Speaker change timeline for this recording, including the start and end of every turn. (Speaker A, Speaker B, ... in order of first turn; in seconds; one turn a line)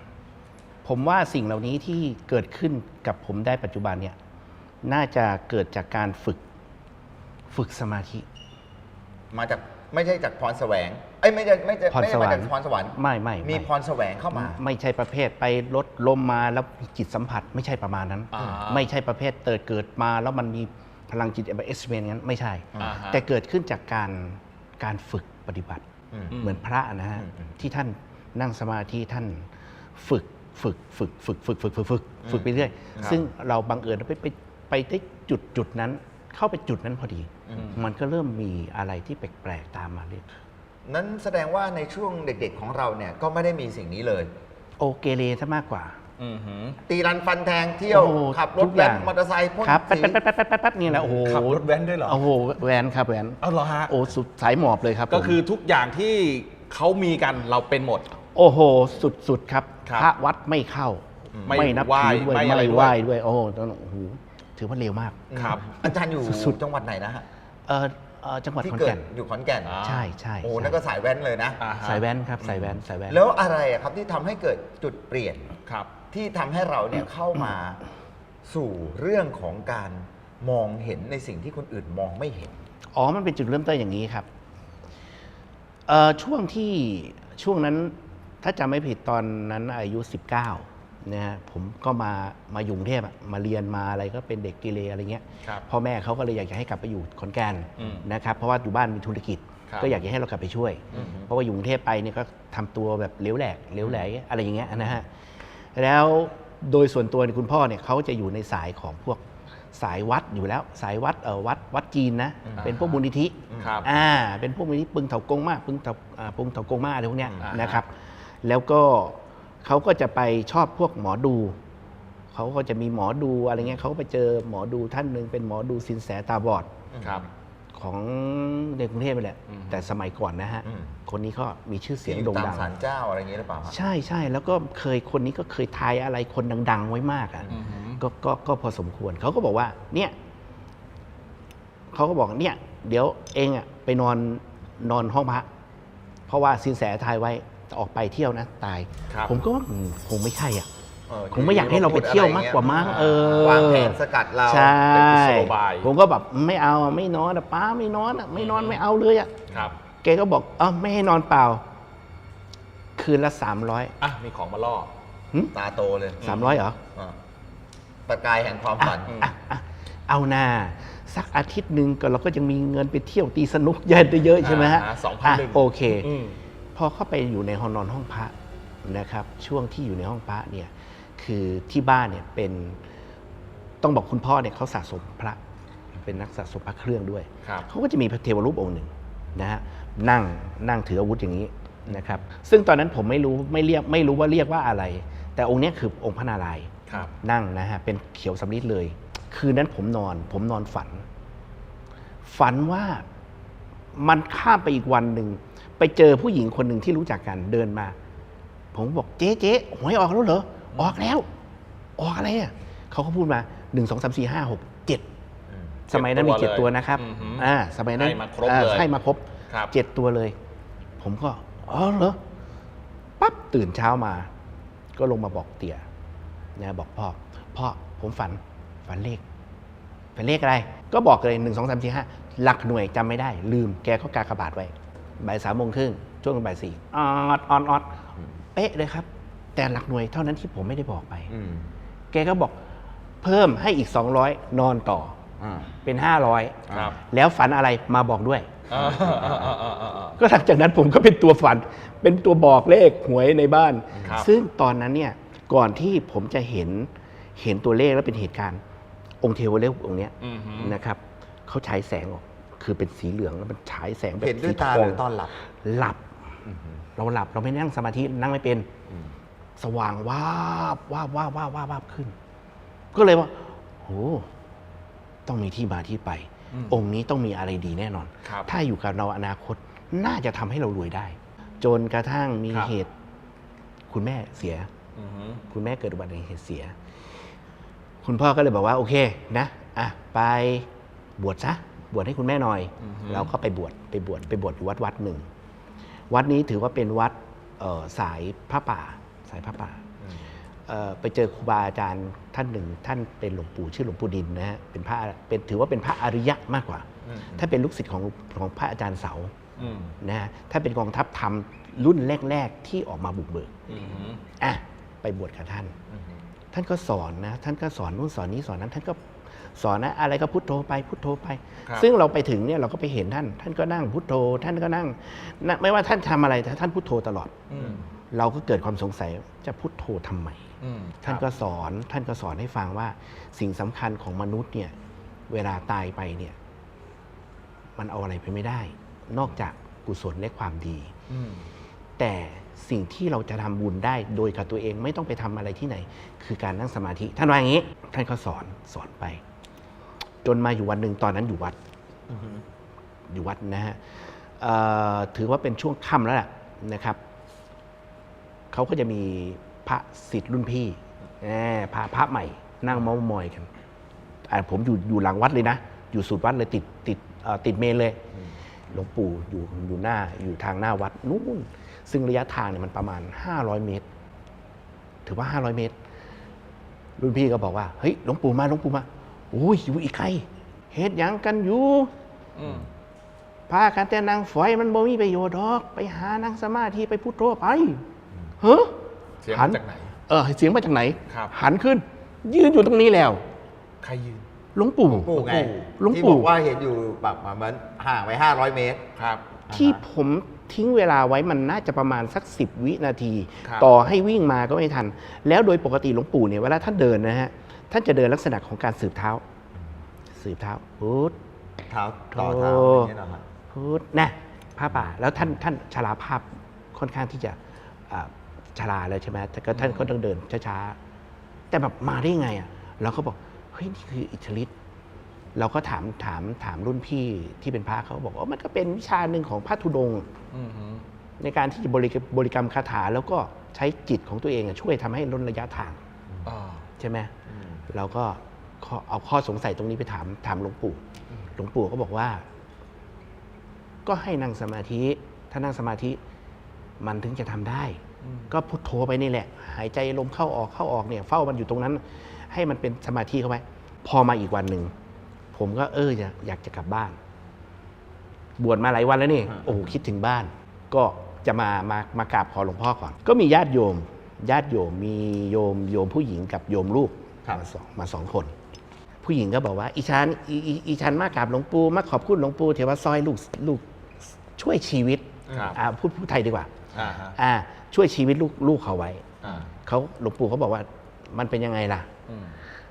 Speaker A: 0.8-4.2
Speaker A: 4.8-6.4
Speaker A: 7.5-8.2
Speaker B: 9.3-14.6
Speaker A: 11.9-13.7
Speaker A: 14.3-25.8
Speaker C: 18.3-18.9
Speaker B: 18.4-18.6
Speaker C: 22.8-23.2
Speaker B: 26.1-26.4
Speaker C: 26.3-26.6
Speaker A: 26.4-40.2
Speaker B: 27.2-27.5
Speaker B: 32.2-33.2
Speaker B: 37.5-37.8
Speaker B: 40.8-44.3
Speaker A: 44.8-46.0
Speaker C: 46.2-46.8
Speaker B: 46.8-50.2
Speaker A: 47.9-49.1
Speaker A: 49.6-55.4
Speaker C: 50.9-52.2
Speaker C: 53.4-53.9
Speaker C: 55.1-58.0
Speaker A: 58.3-65.2
Speaker B: 61.3-61.7
Speaker C: 61.5-62.9
Speaker B: 65.3-67.2
Speaker C: 65.3-65.7
Speaker A: 65.8-66.6
Speaker A: 67.7-69.1
Speaker B: 68.6-69.8
Speaker C: 69.6-70.1
Speaker A: 69.8-70.8
Speaker B: 70.4-71.6
Speaker C: 71.6-72.0
Speaker A: 71.8-73.2
Speaker B: 73.1-75.5
Speaker C: 75.7-75.9
Speaker B: 76.1-77.8
Speaker B: 78.4-82.5
Speaker A: 82.9-84.3
Speaker A: 85.9-105.1
Speaker C: 97.8-98.0
Speaker C: 99.7-100.0
Speaker C: 100.9-101.2
Speaker C: 104.7-104.9
Speaker A: 105.7-109.2
Speaker A: 109.7-121.6
Speaker B: 112.5-112.7
Speaker C: 112.6-113.0
Speaker B: 113.5-113.9
Speaker C: 113.6-113.9
Speaker C: 117.4-117.8
Speaker A: 122.3-126.7
Speaker B: 126.9-127.3
Speaker C: 127.0-127.3
Speaker A: 127.7-132.7
Speaker C: 129.5-129.8
Speaker B: 130.6-130.9
Speaker B: 132.0-133.7
Speaker A: 133.7-140.1
Speaker C: 137.5-138.0
Speaker A: 141.9-145.5
Speaker A: 146.3-150.7
Speaker B: 151.1-154.8
Speaker A: 151.3-159.3
Speaker C: 152.6-153.5
Speaker C: 154.8-155.9
Speaker C: 158.3-158.8
Speaker C: 159.5-159.8
Speaker A: 160.0-161.6
Speaker A: 163.0-163.9
Speaker C: 164.0-164.9
Speaker B: 165.5-167.2
Speaker C: 166.2-166.6
Speaker A: 166.2-166.8
Speaker B: 168.1-169.2
Speaker A: 168.8-176.1
Speaker C: 169.0-169.3
Speaker C: 174.4-176.4
Speaker A: 176.7-182.8
Speaker A: 183.8-185.4
Speaker A: 186.0-201.0
Speaker C: 191.9-192.2
Speaker A: 202.2-203.0
Speaker A: 203.9-207.9
Speaker A: 208.7-211.3
Speaker A: 212.0-215.0
Speaker A: 215.9-220.3
Speaker C: 215.9-218.9
Speaker A: 221.0-222.2
Speaker A: 223.2-224.3
Speaker A: 224.9-225.8
Speaker A: 226.6-229.2
Speaker A: 230.2-237.9
Speaker A: 238.5-241.3
Speaker B: 241.3-241.7
Speaker A: 242.1-242.6
Speaker A: 243.2-245.2
Speaker B: 245.4-245.7
Speaker A: 245.8-248.6
Speaker B: 246.7-246.9
Speaker C: 246.7-246.9
Speaker C: 248.7-250.2
Speaker B: 248.7-249.5
Speaker A: 250.2-258.6
Speaker B: 253.9-254.2
Speaker A: 259.2-265.0
Speaker C: 260.2-260.8
Speaker B: 264.2-265.3
Speaker A: 265.6-266.0
Speaker A: 266.9-268.7
Speaker A: 269.6-272.1
Speaker A: 272.9-274.3
Speaker A: 275.2-282.9
Speaker C: 276.5-276.8
Speaker A: 283.9-284.7
Speaker C: 284.9-285.4
Speaker A: 285.5-286.8
Speaker A: 288.0-295.2
Speaker C: 292.8-293.3
Speaker A: 296.1-299.8
Speaker A: 300.7-309.3
Speaker B: 307.0-307.4
Speaker C: 309.6-309.9
Speaker A: 310.0-313.5
Speaker C: 313.7-314.2
Speaker A: 314.4-315.7
Speaker B: 315.9-316.2
Speaker A: 316.5-327.3
Speaker C: 327.5-327.9
Speaker A: 328.1-330.4
Speaker C: 330.6-331.2
Speaker A: 331.0-334.7
Speaker A: 335.3-336.4
Speaker A: 337.8-340.9
Speaker C: 341.1-341.4
Speaker A: 342.0-349.2
Speaker A: 350.2-351.6
Speaker B: 352.1-352.4
Speaker A: 353.1-357.0
Speaker A: 358.5-363.5
Speaker A: 364.3-368.0
Speaker A: 368.7-373.8
Speaker A: 375.1-375.7
Speaker A: 377.0-381.9
Speaker C: 382.4-382.7
Speaker A: 383.5-387.8
Speaker A: 388.4-388.8
Speaker C: 389.2-389.9
Speaker A: 389.3-393.2
Speaker C: 393.8-394.2
Speaker A: 394.5-396.3
Speaker B: 394.8-398.8
Speaker C: 398.9-399.2
Speaker B: 399.5-399.8
Speaker A: 399.5-409.2
Speaker C: 403.4-403.7
Speaker A: 410.1-411.1
Speaker B: 411.7-413.2
Speaker A: 412.1-412.9
Speaker A: 413.5-417.4
Speaker A: 417.9-420.8
Speaker C: 419.5-419.9
Speaker A: 421.5-424.5
Speaker A: 425.3-430.1
Speaker C: 430.3-430.9
Speaker A: 431.2-435.8
Speaker C: 436.2-436.6
Speaker A: 436.8-437.1
Speaker B: 437.3-437.6
Speaker A: 437.7-440.8
Speaker A: 441.4-442.2
Speaker A: 443.8-446.0
Speaker A: 446.8-454.7
Speaker C: 448.0-448.3
Speaker A: 455.3-457.0
Speaker A: 458.4-468.3
Speaker A: 469.0-473.6
Speaker A: 474.3-476.6
Speaker B: 475.3-475.6
Speaker C: 475.3-475.6
Speaker B: 476.7-477.0
Speaker C: 476.7-477.1
Speaker A: 477.1-479.1
Speaker C: 479.2-479.5
Speaker A: 479.6-481.9
Speaker C: 482.1-482.4